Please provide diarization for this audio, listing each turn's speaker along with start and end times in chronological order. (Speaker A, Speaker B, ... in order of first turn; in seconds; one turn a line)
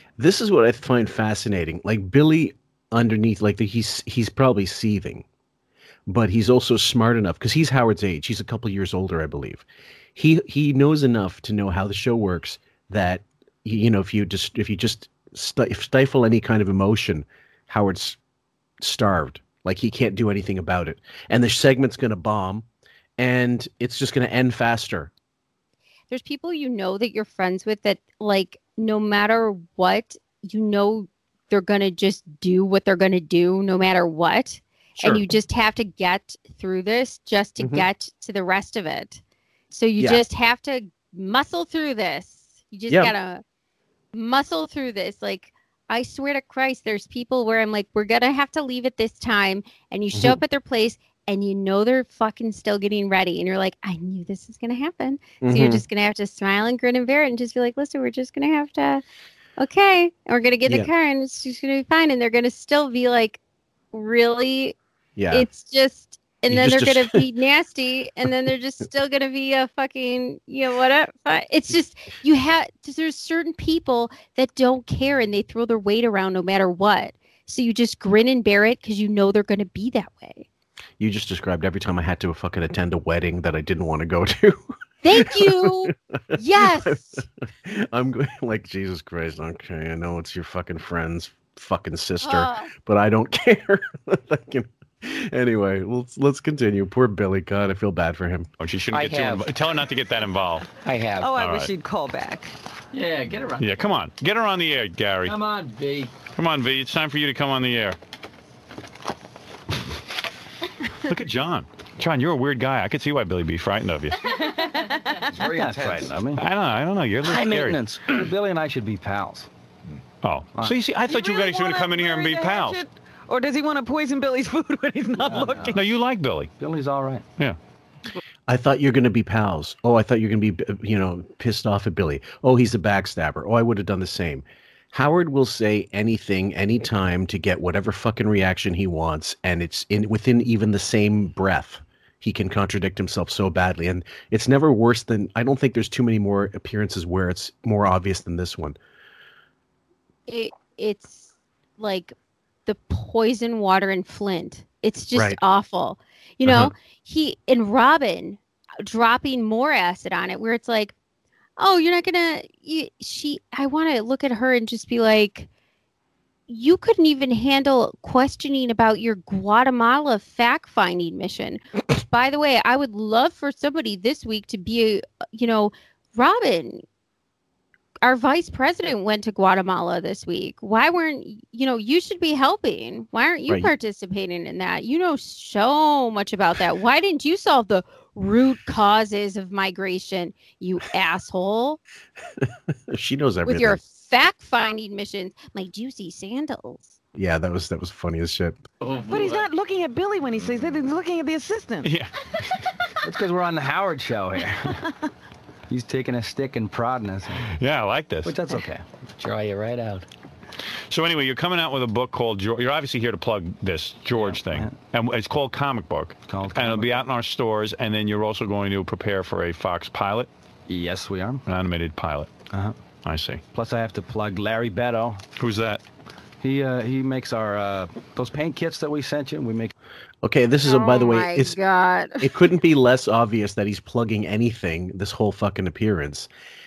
Speaker A: 0.2-5.2
Speaker A: 6.1-9.7
Speaker A: 10.2-18.2
Speaker A: 18.8-22.6
Speaker A: 23.2-25.1
Speaker B: 26.1-43.4
Speaker A: 37.6-37.9
Speaker A: 42.9-43.1
Speaker B: 44.1-59.0
Speaker A: 50.1-50.4
Speaker A: 55.4-55.9
Speaker B: 59.6-63.4
Speaker B: 63.9-64.8
Speaker A: 65.2-65.5
Speaker B: 65.3-80.5
Speaker A: 66.5-67.2
Speaker A: 81.0-98.5
Speaker B: 85.0-87.2
Speaker B: 92.2-92.7
Speaker C: 98.6-100.7
Speaker D: 98.9-99.5
Speaker D: 100.8-101.3
Speaker E: 101.2-102.5
Speaker C: 101.4-101.7
Speaker D: 103.0-103.5
Speaker C: 103.5-105.4
Speaker D: 105.3-106.1
Speaker C: 106.3-108.0
Speaker C: 111.0-114.3
Speaker E: 114.2-115.2
Speaker F: 115.4-116.4
Speaker C: 116.4-117.8
Speaker D: 117.2-118.0
Speaker F: 118.1-119.5
Speaker C: 120.2-122.8
Speaker E: 121.1-125.8
Speaker F: 125.2-125.8
Speaker C: 125.7-126.5
Speaker F: 126.6-127.2
Speaker A: 128.5-148.8
Speaker B: 150.3-152.2
Speaker B: 152.7-160.9
Speaker A: 156.4-156.7
Speaker B: 161.6-165.5
Speaker B: 166.5-176.8
Speaker B: 178.0-191.8
Speaker A: 192.4-193.8
Speaker B: 193.5-197.0
Speaker A: 197.2-198.7
Speaker E: 199.0-201.9
Speaker C: 201.8-202.1
Speaker F: 203.0-204.8
Speaker F: 205.7-207.5
Speaker C: 207.6-208.4
Speaker F: 208.2-208.8
Speaker D: 209.2-210.1
Speaker C: 210.9-220.3
Speaker F: 214.2-214.7
Speaker F: 216.3-217.0
Speaker F: 220.7-221.4
Speaker C: 221.5-222.3
Speaker F: 222.5-222.8
Speaker C: 223.1-223.4
Speaker F: 223.5-225.2
Speaker C: 225.4-225.8
Speaker F: 226.4-229.7
Speaker A: 230.2-231.6
Speaker B: 230.7-232.2
Speaker A: 232.2-236.3